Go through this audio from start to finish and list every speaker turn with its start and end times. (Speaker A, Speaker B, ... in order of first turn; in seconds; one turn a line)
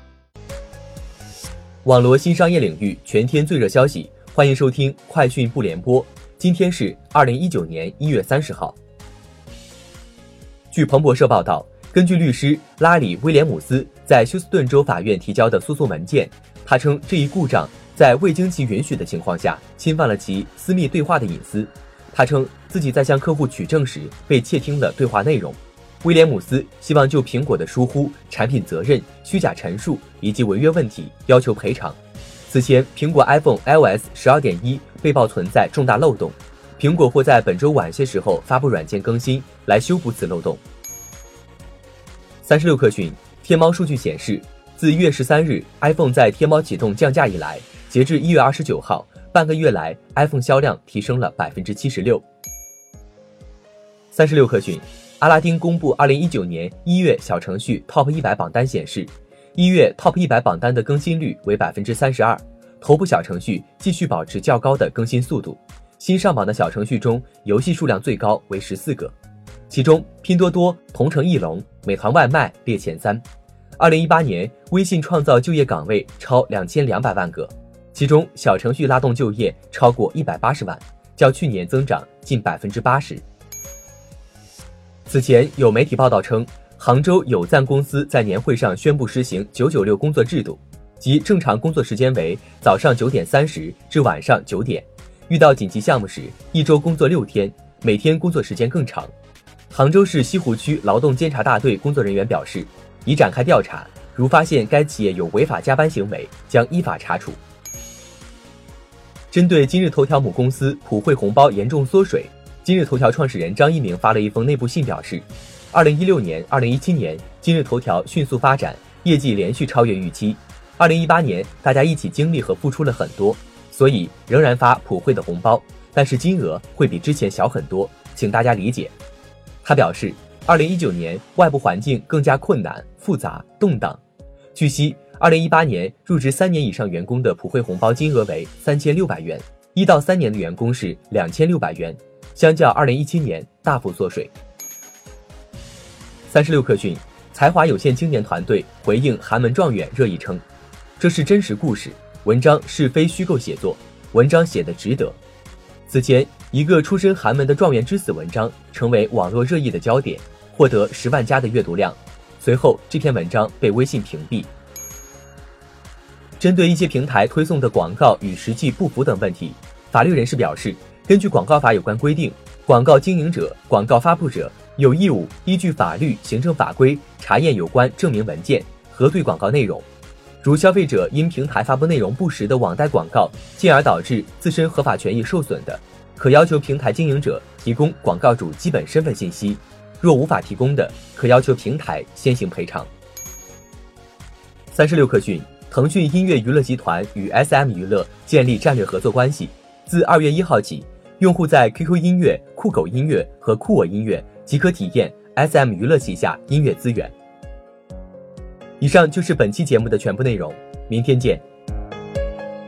Speaker A: 1.9-8.8
Speaker A: 10.7-40.6
Speaker A: 42.4-52.2
Speaker A: 54.1-69.2
Speaker A: 69.7-73.2
Speaker A: 73.8-83.2
Speaker A: 85.1-99.1
Speaker A: 99.7-107.4
Speaker A: 109.3-128.9
Speaker A: 129.6-134.0
Speaker A: 134.6-144.3
Speaker A: 146.3-150.4
Speaker A: 151.0-155.2
Speaker A: 155.9-164.5
Speaker A: 166.4-179.9
Speaker A: 180.4-192.9
Speaker A: 194.7-207.1
Speaker A: 208.8-211.4